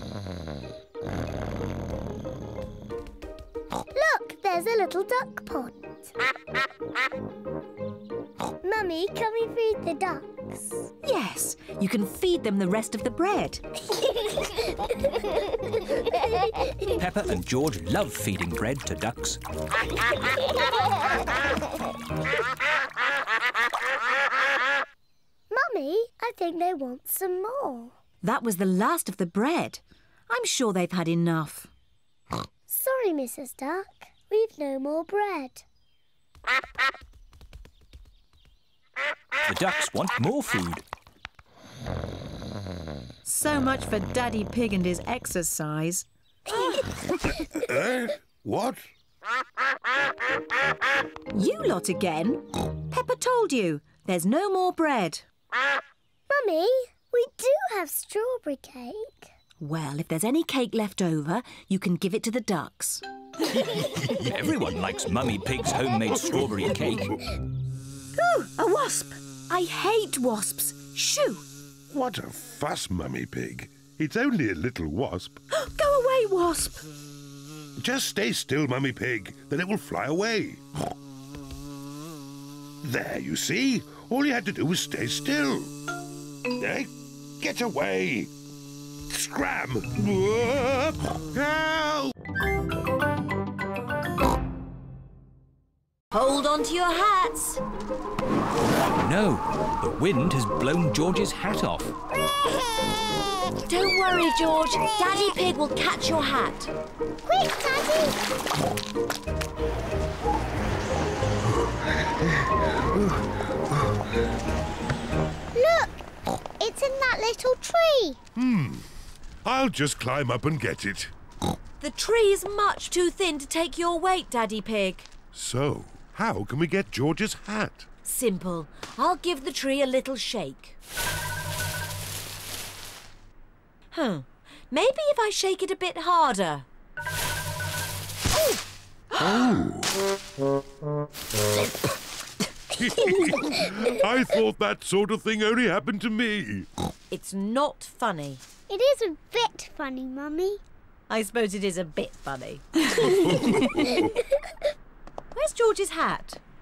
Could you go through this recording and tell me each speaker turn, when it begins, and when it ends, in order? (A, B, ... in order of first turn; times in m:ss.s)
0:03.9-0:06.1 A
0:08.6-0:10.9 A
0:11.0-0:13.6 B
0:17.0-0:19.4 C
0:25.5-0:28.0 A
0:28.2-0:31.7 B
0:32.7-0:35.6 A
0:39.5-0:40.8 C
0:43.2-0:46.1 B
0:47.5-0:48.9 D
0:51.3-0:55.2 B
0:56.3-0:59.3 A
0:59.6-1:03.0 B
1:04.0-1:07.2 C
1:08.2-1:11.4 B
1:11.9-1:15.4 D
1:15.5-1:16.8 B
1:17.8-1:20.6 D
1:22.8-1:25.7 D
1:26.6-1:28.3 D
1:29.1-1:32.1 D
1:36.1-1:37.6 B
1:38.8-1:41.9 C
1:43.6-1:46.7 B
1:47.2-1:48.2 A
1:52.9-1:53.2 D
1:55.5-1:56.0 A
1:56.6-1:58.2 A
1:58.4-1:58.9 D
1:59.4-2:01.1 D
2:01.8-2:05.1 B
2:05.3-2:07.9 D
2:08.0-2:10.8 B
2:13.9-2:16.7 B
2:19.2-2:20.0 D
2:22.8-2:26.7 D
2:27.1-2:28.4 B
2:28.7-2:30.6 A
2:31.1-2:33.3 B
2:33.5-2:33.9 D
2:35.4-2:36.4 B